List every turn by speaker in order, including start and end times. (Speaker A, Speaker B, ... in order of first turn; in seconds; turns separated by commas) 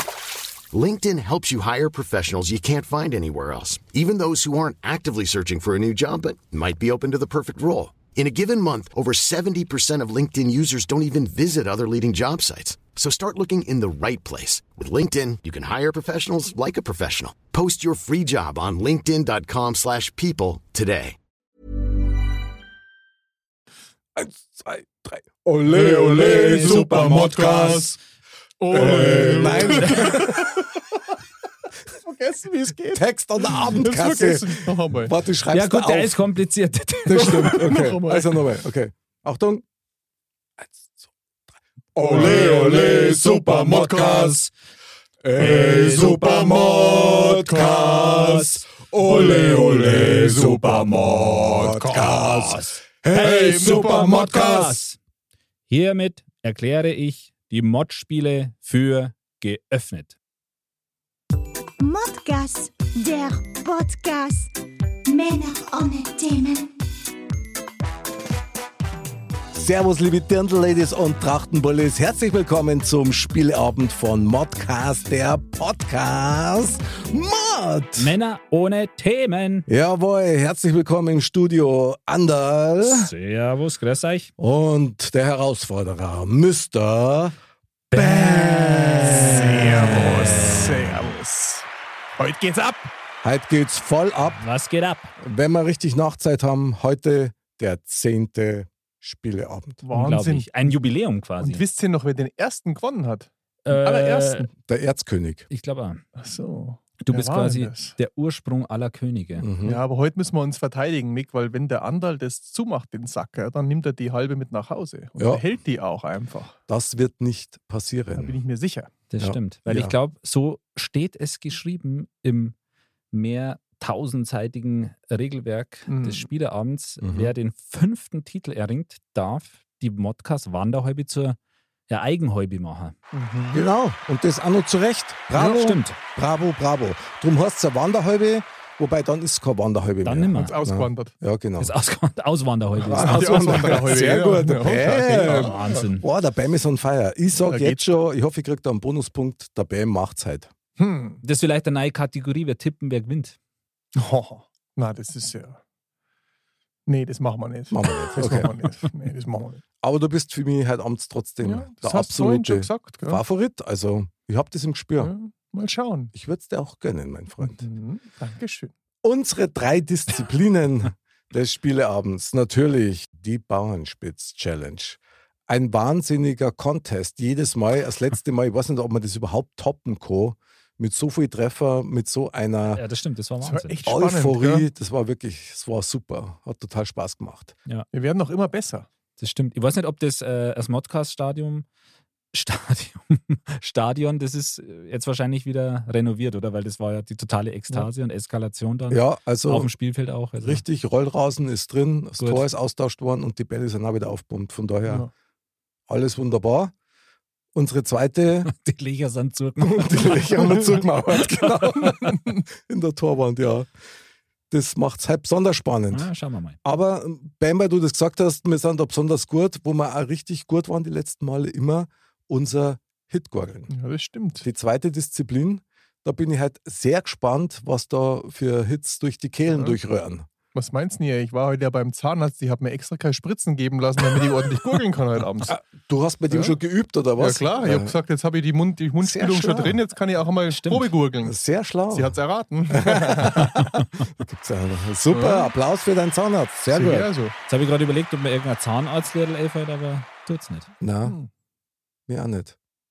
Speaker A: 0.7-21.2, Speaker B: 24.1-28.0, Speaker C: 25.7-28.0, Speaker D: 26.2-27.6, Speaker C: 28.6-30.8, Speaker B: 28.7-30.4, Speaker D: 28.7-30.3, Speaker C: 32.0-35.1, Speaker B: 32.9-36.2, Speaker D: 35.5-37.7, Speaker B: 37.1-39.6, Speaker C: 37.2-38.5, Speaker B: 40.6-41.1, Speaker B: 42.0-44.4, Speaker C: 42.0-44.4, Speaker D: 42.1-42.8, Speaker D: 44.0-44.5, Speaker B: 45.2-54.4, Speaker D: 45.4-46.6, Speaker C: 46.2-48.2, Speaker D: 48.1-48.6, Speaker C: 49.1-52.5, Speaker D: 52.3-55.0, Speaker C: 53.1-54.8, Speaker D: 55.7-60.2, Speaker E: 61.8-64.5, Speaker E: 65.1-66.7, Speaker B: 69.5-78.2, Speaker D: 78.0-79.7, Speaker B: 79.7-83.1, Speaker D: 82.8-84.3, Speaker B: 84.4-87.4, Speaker D: 87.9-90.7, Speaker B: 87.9-91.0, Speaker C: 89.0-92.9, Speaker B: 93.2-94.4, Speaker D: 94.4-95.1, Speaker B: 95.2-99.8, Speaker C: 99.8-100.5, Speaker D: 99.9-101.6, Speaker C: 101.4-104.5, Speaker D: 103.7-104.5, Speaker B: 104.6-105.5, Speaker D: 105.5-106.0, Speaker C: 106.2-108.0, Speaker D: 107.0-109.5, Speaker B: 109.4-109.8, Speaker C: 109.6-116.6, Speaker B: 116.7-118.4, Speaker C: 118.2-118.9, Speaker D: 119.1-122.5, Speaker B: 119.2-120.0, Speaker D: 123.1-131.4, Speaker C: 125.9-126.3, Speaker B: 127.0-127.3, Speaker D: 131.9-132.9, Speaker C: 133.1-133.6, Speaker B: 133.5-141.7, Speaker D: 135.4-136.0, Speaker D: 140.0-140.6, Speaker C: 140.4-141.1, Speaker D: 141.6-144.0, Speaker B: 142.8-150.5, Speaker C: 143.0-145.9, Speaker D: 145.2-146.1, Speaker C: 147.4-147.9, Speaker C: 150.8-151.2, Speaker D: 151.2-153.4, Speaker C: 153.9-155.6, Speaker C: 156.9-159.6, Speaker B: 157.7-158.5, Speaker B: 159.8-165.1, Speaker C: 161.4-163.2, Speaker C: 165.0-166.1, Speaker B: 166.1-167.6, Speaker C: 167.4-168.7, Speaker B: 169.0-182.8, Speaker D: 182.7-183.8, Speaker C: 183.4-184.7, Speaker B: 183.9-187.6, Speaker C: 187.9-188.9, Speaker D: 189.2-191.7, Speaker D: 192.3-200.6, Speaker B: 198.9-199.7, Speaker B: 200.4-205.1, Speaker D: 202.2-202.5, Speaker B: 205.9-206.7, Speaker B: 207.6-208.5, Speaker D: 208.5-210.6, Speaker B: 209.6-213.7, Speaker C: 212.1-212.4, Speaker B: 214.5-216.1, Speaker D: 215.9-216.6, Speaker B: 216.6-223.7, Speaker C: 223.7-224.4, Speaker B: 224.4-230.3, Speaker C: 229.5-229.8, Speaker C: 230.5-235.6, Speaker B: 235.5-237.9, Speaker C: 237.2-243.7, Speaker B: 239.0-239.8, Speaker D: 240.5-240.9, Speaker B: 241.2-242.2, Speaker B: 242.7-243.6, Speaker B: 244.1-247.1, Speaker C: 245.1-245.5, Speaker C: 246.7-247.3, Speaker D: 247.5-250.7, Speaker B: 250.8-251.2, Speaker B: 252.1-252.6